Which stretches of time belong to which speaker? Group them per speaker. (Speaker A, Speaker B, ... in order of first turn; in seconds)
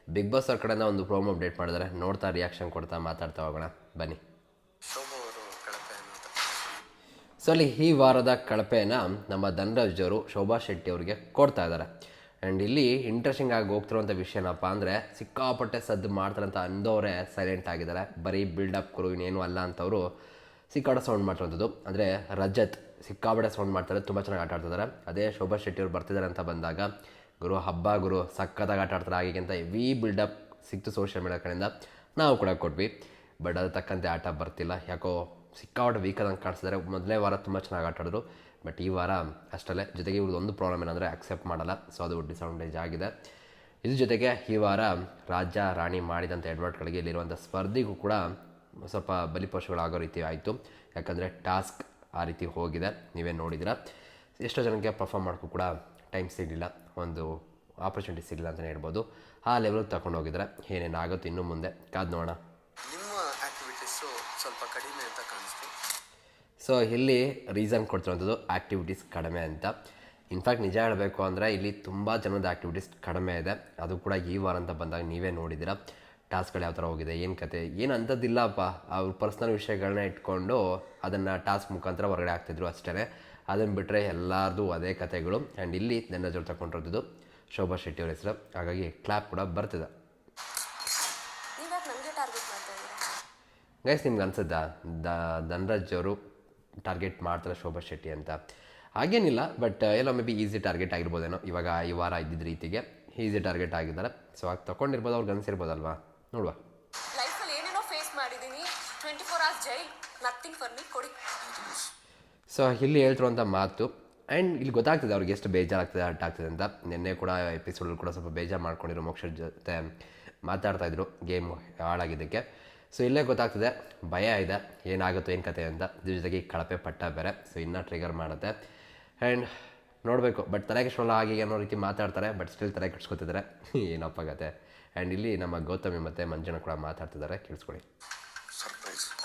Speaker A: 0.1-4.2, 7.4-11.9, 12.4-20.1, 20.7-26.9, 27.4-43.1, 43.9-48.2, 48.9-53.8, 54.4-57.3, 57.8-62.4, 66.6-69.7, 70.3-75.8, 76.3-89.9, 93.9-96.2, 96.8-98.4, 99.0-106.6, 112.5-119.9, 120.5-128.5, 129.2-129.5, 130.1-137.8
Speaker B: 4.9-6.8, 62.9-65.7, 138.6-139.1
Speaker C: 91.6-93.0, 107.1-111.8